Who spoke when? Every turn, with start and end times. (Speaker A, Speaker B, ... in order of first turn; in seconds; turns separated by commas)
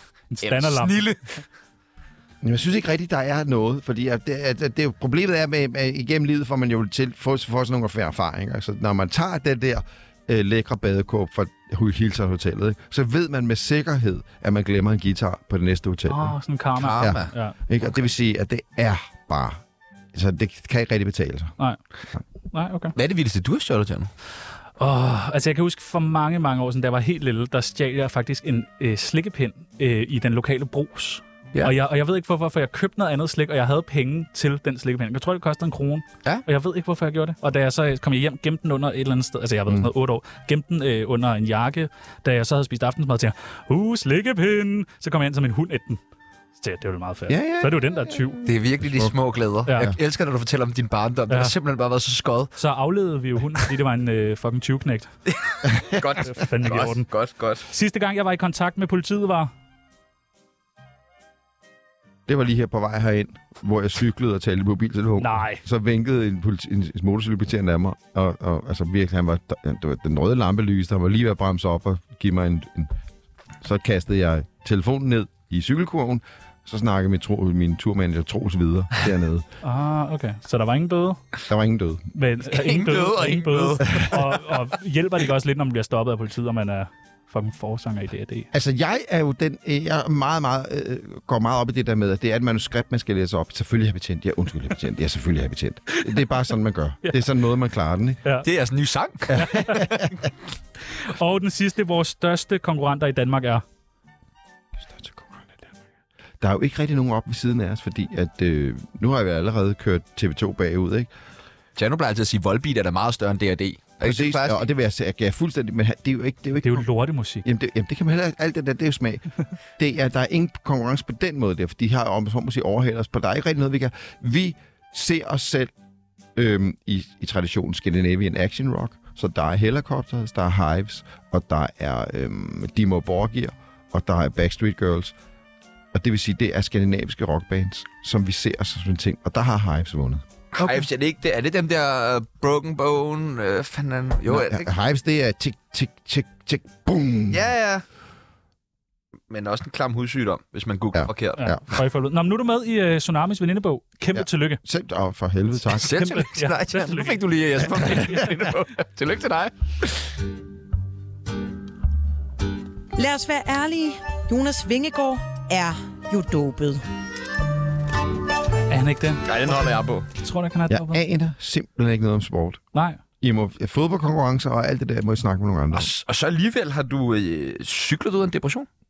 Speaker A: 0.3-1.0, Speaker B: 0.4-1.4, Speaker C: 2.4-16.3, Speaker A: 16.1-17.6, Speaker B: 16.8-17.3, Speaker C: 17.0-19.6, Speaker C: 20.1-21.6, Speaker A: 22.5-22.9, Speaker B: 22.9-24.1, Speaker A: 24.8-46.0, Speaker A: 46.6-48.4, Speaker C: 47.3-48.1, Speaker B: 48.4-52.5, Speaker C: 48.8-49.1, Speaker A: 52.6-55.1, Speaker B: 55.3-57.6, Speaker A: 56.2-57.1, Speaker A: 57.7-59.5, Speaker C: 62.3-72.9, Speaker A: 65.2-65.6, Speaker C: 73.6-79.5, Speaker A: 79.6-81.2, Speaker C: 81.5-82.1, Speaker A: 82.1-88.5, Speaker B: 82.5-84.3, Speaker C: 88.5-98.2, Speaker B: 98.4-100.2, Speaker C: 99.3-100.1, Speaker A: 99.3-99.9, Speaker A: 101.0-103.6, Speaker C: 104.8-105.7, Speaker C: 106.4-111.1, Speaker B: 111.8-114.7, Speaker C: 114.0-116.9, Speaker A: 116.6-117.5, Speaker C: 117.4-119.3, Speaker C: 119.8-125.7, Speaker C: 126.3-135.2, Speaker C: 135.9-140.2, Speaker B: 140.6-144.7, Speaker A: 140.6-140.8, Speaker C: 144.3-147.4, Speaker B: 147.3-147.8, Speaker B: 149.3-151.4, Speaker C: 150.9-151.6, Speaker A: 151.4-154.6, Speaker C: 154.1-156.0, Speaker B: 155.7-160.0, Speaker A: 155.9-157.2, Speaker D: 163.0-166.8, Speaker A: 168.7-169.3, Speaker B: 169.2-170.1, Speaker A: 170.2-171.0, Speaker C: 170.7-172.6, Speaker A: 172.7-173.0, Speaker C: 173.2-175.9, Speaker B: 175.7-178.7